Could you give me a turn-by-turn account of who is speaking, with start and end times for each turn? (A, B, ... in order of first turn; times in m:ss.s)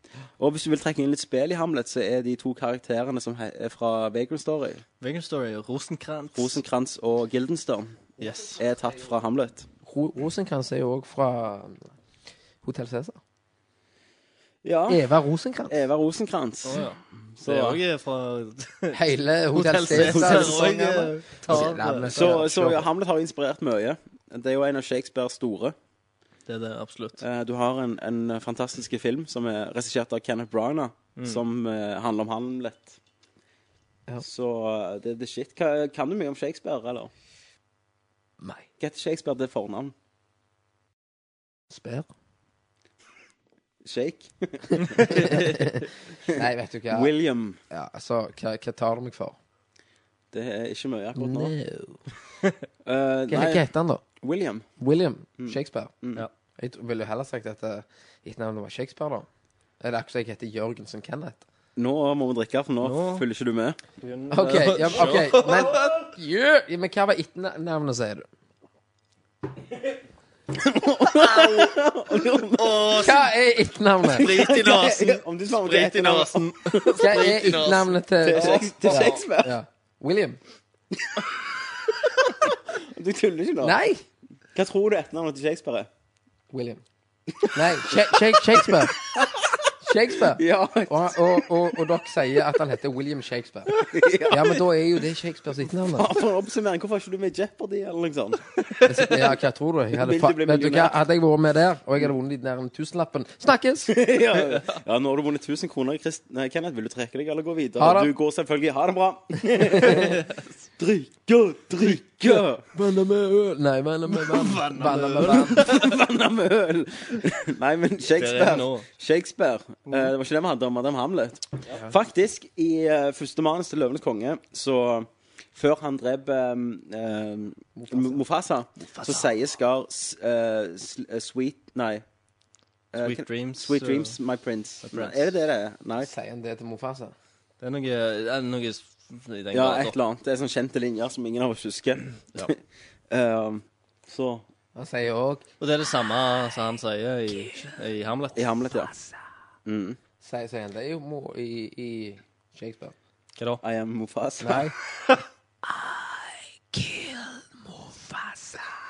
0:00.4-0:04.8 A
0:05.0-0:06.6 B
0:06.4-0:09.7 A
0:08.2-0:08.6 B
0:09.9-0:11.9 C
0:12.6-0:13.2 C
0:14.6-0:15.1 A
0:14.9-0:15.7 C
0:15.7-0:16.8 A
0:16.6-0:22.4 B
0:17.4-0:17.8 A
0:18.9-0:22.9 C
0:19.9-0:20.7 A
0:21.5-0:25.8 A
0:26.5-0:27.2 B
0:27.2-0:33.0 A
0:34.2-0:37.1 A
0:38.8-0:39.9 A
0:41.7-0:42.1 C
0:43.8-0:45.7 A
0:45.0-0:47.1 C
0:46.4-0:47.6 A
0:47.7-0:49.4 C
0:50.3-0:51.5 A
0:51.2-0:52.0 C
0:52.9-0:53.6 A
0:53.3-0:54.0 C
0:54.2-0:54.7 A
0:54.8-0:56.0 C
0:55.4-0:56.2 A
0:56.6-0:59.3 C
0:59.8-1:01.4 C
1:01.8-1:03.8 A
1:02.8-1:03.2 B
1:04.0-1:06.0 B
1:04.3-1:08.3 C
1:05.0-1:05.3 A
1:10.6-1:13.0 A
1:11.1-1:11.8 B
1:12.6-1:13.3 B
1:12.9-1:14.2 C
1:14.1-1:19.2 B
1:14.2-1:17.7 A
1:17.0-1:20.4 C
1:18.2-1:19.6 A
1:22.3-1:23.8 A
1:23.6-1:24.0 C
1:24.5-1:25.9 A
1:26.5-1:26.8 C
1:27.4-1:29.6 A
1:27.5-1:28.9 C
1:29.8-1:33.7 C
1:30.2-1:31.7 A
1:33.8-1:34.6 A
1:34.3-1:36.1 C
1:36.0-1:39.4 A
1:38.9-1:43.9 C
1:40.0-1:41.0 A
1:43.9-1:52.6 A
1:47.8-1:48.1 C
1:52.3-1:55.7 C
1:54.1-1:55.9 B
1:55.2-2:12.0 A
1:58.2-1:58.8 B
2:07.8-2:08.2 C
2:12.9-2:16.1 A
2:13.0-2:14.2 B
2:14.8-2:15.3 B
2:16.0-2:17.1 C
2:17.6-2:20.0 B
2:19.5-2:22.6 A
2:23.1-2:24.4 A
2:24.8-2:25.4 C
2:25.6-2:28.4 B
2:28.4-2:28.9 A
2:28.8-2:29.1 C
2:29.7-2:30.0 A
2:30.2-2:32.9 C
2:33.6-2:34.7 A
2:34.4-2:34.7 C
2:35.7-2:36.2 C
2:36.7-2:38.6 C